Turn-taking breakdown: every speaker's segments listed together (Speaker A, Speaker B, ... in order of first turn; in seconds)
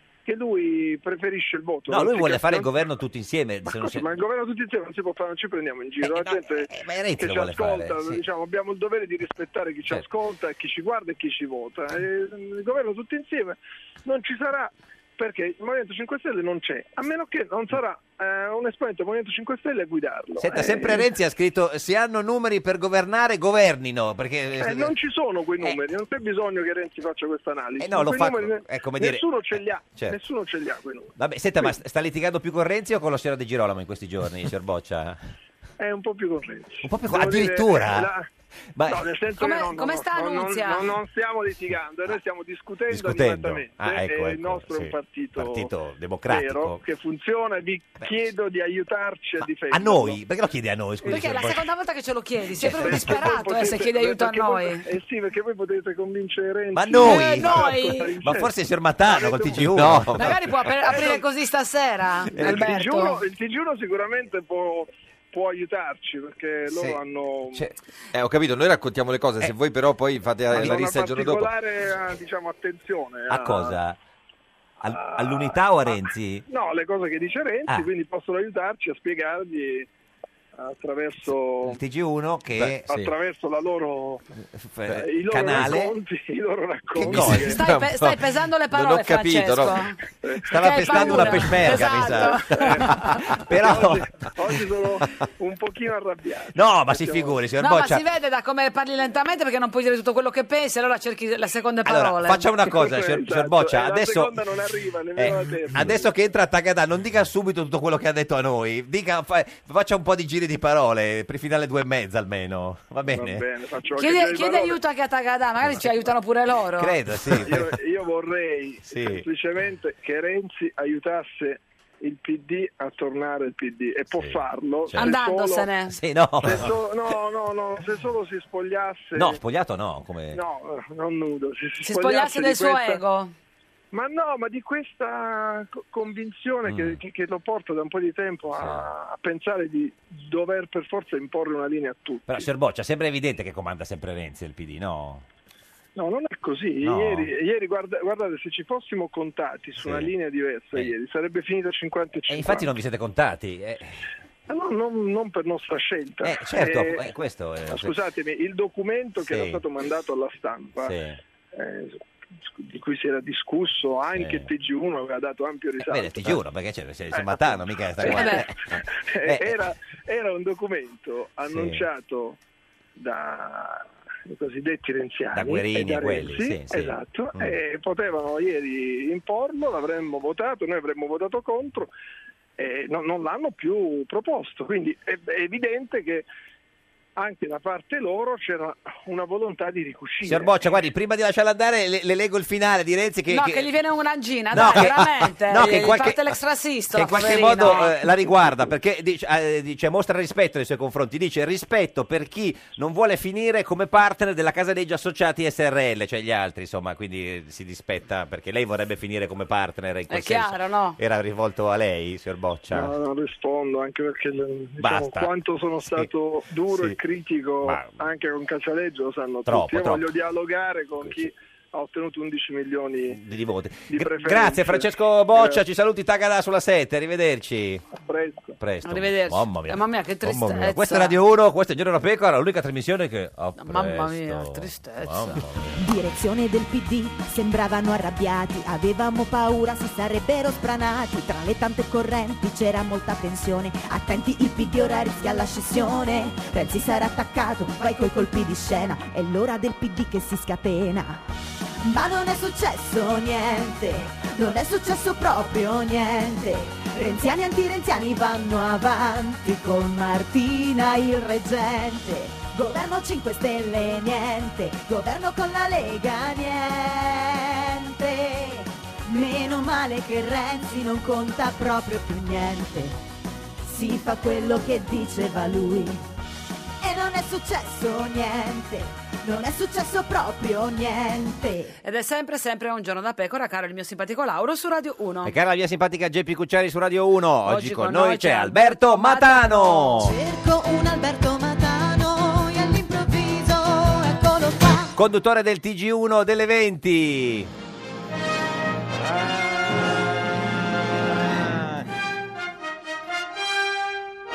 Speaker A: 0.2-2.7, 3.6-21.1, 24.6-31.7, 35.8-38.3, 38.9-45.7, 46.3-50.2, 52.6-58.5, 59.0-59.8, 60.8-61.2, 62.4-67.7, 70.5-73.8, 74.8-79.9, 80.5-81.8, 82.9-84.2, 84.9-87.6, 90.2-97.4, 102.6-106.1, 113.1-114.8, 117.3-125.7, 126.4-129.4, 130.3-133.0, 133.9-142.5, 145.9-152.7, 154.5-157.0, 157.7-160.9, 161.5-166.4, 167.1-172.4, 172.9-181.9, 182.6-186.2, 187.2-190.7, 212.7-223.2, 223.9-225.6, 227.9-228.6
Speaker B: 1.9-4.2, 6.0-8.2, 20.4-24.9, 27.8-30.2, 31.2-35.2, 36.8-38.1, 38.7-39.1, 42.9-46.8, 49.4-51.7, 52.6-53.3, 56.7-60.4, 66.7-67.0, 70.5-70.8, 73.3-74.0, 74.8-76.4, 81.6-82.9, 84.5-86.0, 86.9-87.6, 90.4-94.6, 96.5-98.0, 101.8-104.4, 105.2-113.4, 116.8-117.8, 118.9-119.2, 124.1-125.1, 125.9-126.7, 129.1-130.4, 136.6-137.0, 138.6-138.9, 142.3-145.2, 146.8-147.3, 149.8-150.1, 152.3-154.0, 156.2-157.9, 159.2-159.6, 160.8-161.2, 164.1-164.5, 165.8-169.7, 171.5-171.8, 175.3-177.6, 190.2-193.7, 194.5-196.4, 196.9-212.9, 214.8-216.1, 216.7-217.0, 217.6-218.0, 219.4-220.1, 221.0-221.3, 223.1-227.8, 228.6-236.0, 285.2-290.1, 294.9-297.5, 301.5-301.8
Speaker C: 39.4-40.9, 51.0-54.8, 57.0-58.1, 60.2-63.2, 87.2-89.9, 90.5-93.2, 97.6-102.4, 113.9-116.9, 124.9-126.0, 131.8-133.3, 168.1-168.5, 193.3-198.0, 210.1-211.0, 228.8-231.2, 233.6-235.4, 281.8-285.3, 287.5-290.0
Speaker D: 59.7-60.3, 68.1-71.5, 82.6-83.1, 87.1-88.2, 88.7-89.9
Speaker E: 235.8-251.2, 251.8-273.0, 273.6-276.0, 276.8-281.7, 290.0-294.9